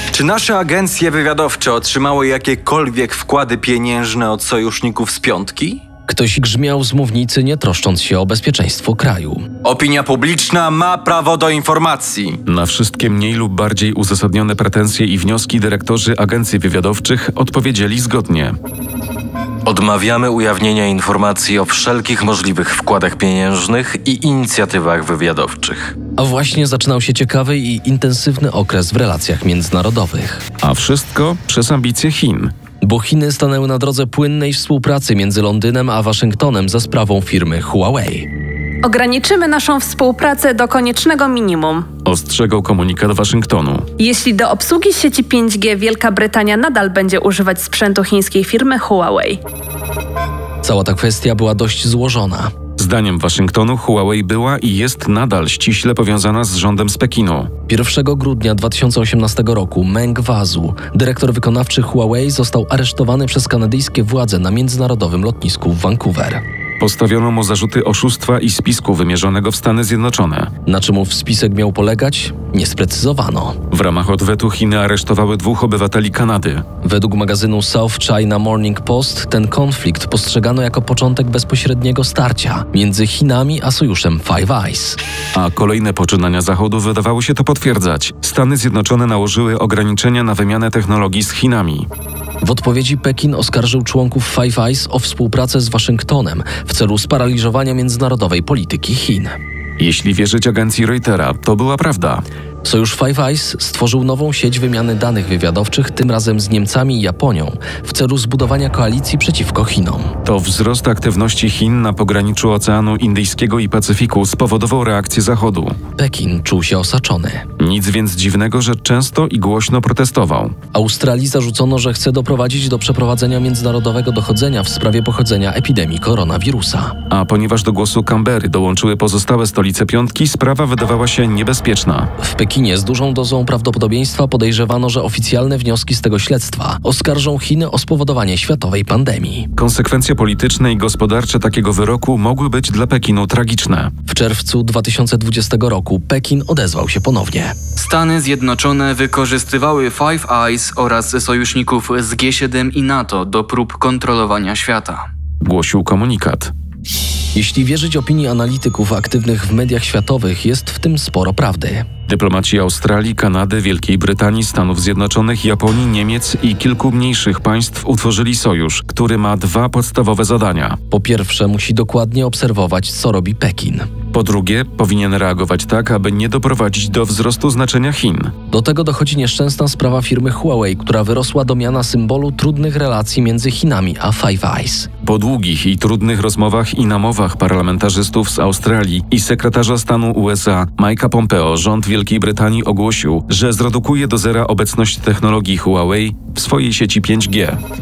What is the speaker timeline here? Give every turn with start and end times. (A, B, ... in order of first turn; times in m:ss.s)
0:00.1-0:05.8 A
0:06.1-0:09.4 B
0:09.6-0:12.4 A
0:12.4-0:18.6 C
0:19.7-0:25.9 D
0:26.2-0:30.4 B
0:30.6-0:32.5 C
0:32.8-0:38.3 B
0:38.9-0:41.8 E
0:42.0-0:43.9 C
0:44.0-0:49.3 E
0:50.6-0:52.5 B
0:52.8-0:57.5 C
0:57.7-1:06.4 B
1:06.8-1:10.5 C
1:10.7-1:13.6 B
1:13.7-1:16.6 C
1:16.8-1:25.0 B
1:25.4-1:31.9 C
1:32.4-1:39.4 B
1:39.8-1:42.2 C
1:42.6-1:50.1 B
1:50.2-1:55.8 C
1:56.0-1:57.4 B
1:57.6-2:00.6 C
2:00.7-2:07.0 B
2:07.1-2:12.1 C
2:12.2-2:19.5 B
2:19.6-2:23.9 C
2:24.1-2:27.6 B
2:27.8-2:35.0 F
2:35.4-2:36.5 C
2:37.3-2:41.9 B
2:42.1-2:50.8 C
2:50.9-2:53.9 B
2:54.1-2:58.3 C
2:58.5-3:04.9 B
3:05.0-3:17.6 C